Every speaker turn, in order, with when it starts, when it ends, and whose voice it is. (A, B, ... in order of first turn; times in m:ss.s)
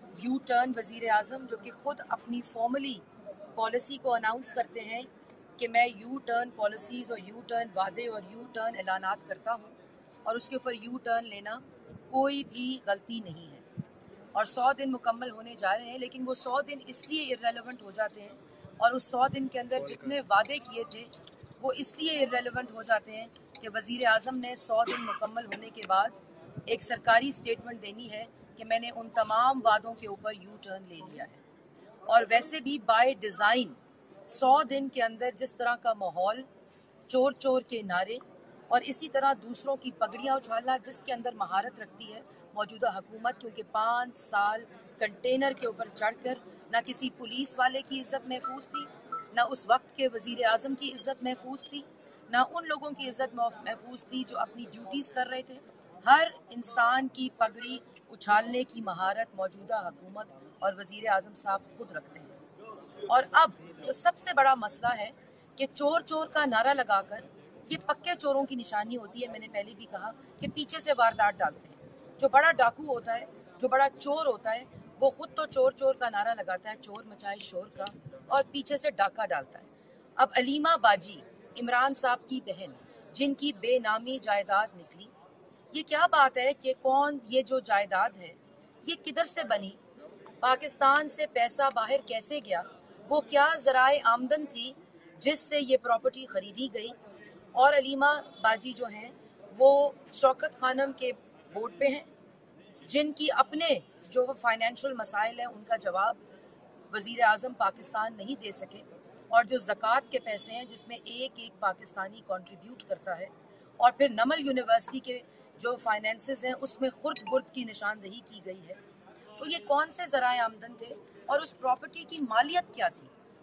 0:00.2-0:03.0 A
0:03.5-0:13.6 A
0:14.4-0:26.2 A
0:26.7-0:31.4 A
0:32.1-0:36.5 A
0:37.1-1:02.4 A
1:03.1-1:25.1 A
1:25.7-1:29.8 A
1:30.4-1:37.0 A
1:37.6-1:42.1 A
1:42.9-1:46.2 A
1:46.9-1:58.8 A
1:59.4-2:03.1 A